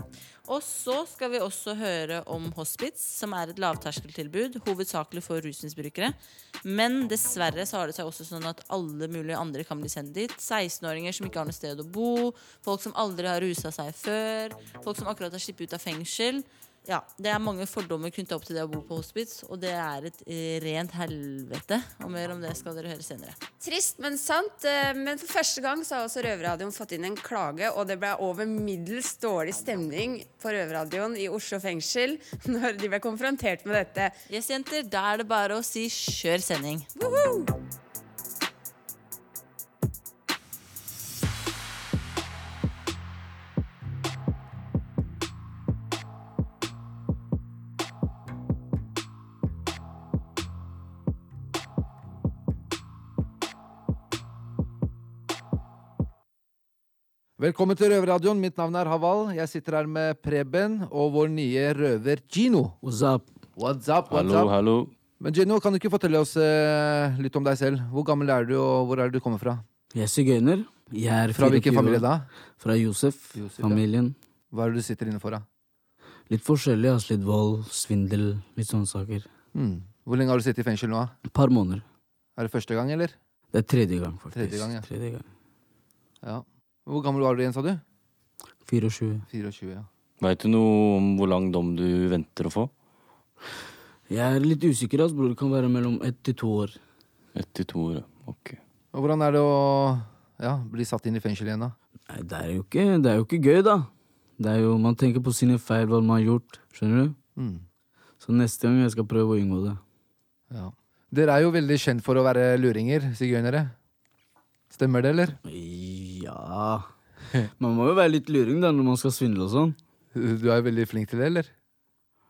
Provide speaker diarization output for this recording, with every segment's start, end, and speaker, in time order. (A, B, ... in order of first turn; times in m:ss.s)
0:00.4-0:23.4 A
0:23.6-0:34.1 B
0:34.3-0:36.9 A
0:37.0-0:37.5 B
0:57.4-1:02.8 C
1:02.8-1:03.3 D
1:03.6-1:04.5 C
1:04.1-1:04.9 E
1:05.2-1:09.6 C
1:09.9-1:12.0 D
1:11.3-1:12.3 C
1:12.6-1:14.1 D
1:13.3-1:13.8 C
1:14.5-1:15.4 C
1:16.3-1:19.3 D
1:19.5-1:21.1 C
1:21.3-1:21.8 D
1:22.4-1:23.2 C
1:23.5-1:25.2 D
1:24.3-1:24.9 C
1:26.2-1:27.8 C
1:28.6-1:29.2 D
1:29.3-1:29.9 C
1:30.2-1:32.7 E
1:34.1-1:36.8 D
1:37.3-1:38.6 E
1:38.9-1:41.7 C
1:42.1-1:43.9 D
1:44.4-1:47.2 D
1:47.4-1:47.6 C
1:48.2-1:49.8 D
1:50.5-1:53.7 C
1:54.7-1:55.4 C
1:55.4-1:56.9 D
1:57.6-1:59.8 D
2:00.1-2:01.5 C